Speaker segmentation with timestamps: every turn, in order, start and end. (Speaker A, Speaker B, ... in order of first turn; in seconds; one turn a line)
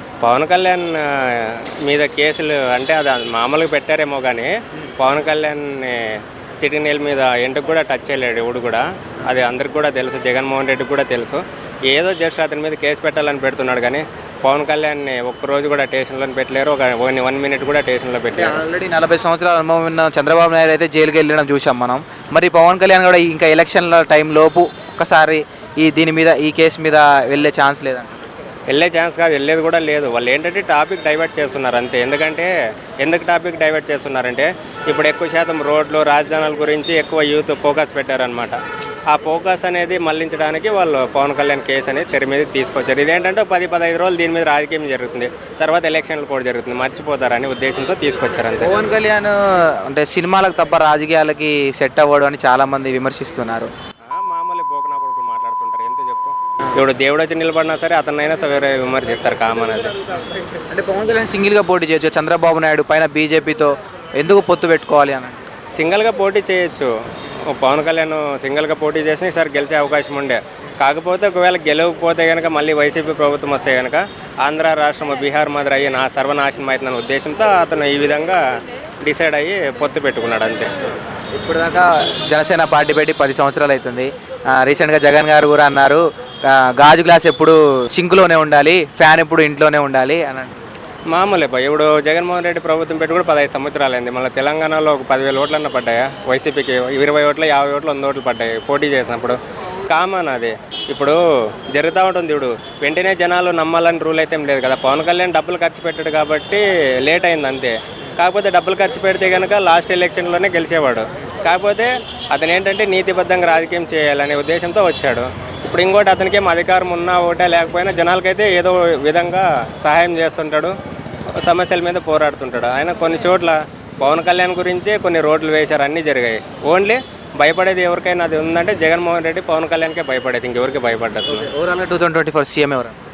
Speaker A: 0.2-18.6
Speaker B: 18.3-28.2
Speaker A: 28.7-48.8
Speaker B: 48.6-53.7
Speaker A: 54.1-60.2
Speaker B: 60.7-65.4
Speaker A: 65.8-66.9
Speaker A: 67.5-78.4
Speaker A: 79.0-80.7
Speaker B: 81.3-90.6
Speaker A: 91.1-120.8
Speaker A: 121.4-131.5
Speaker B: 131.3-133.0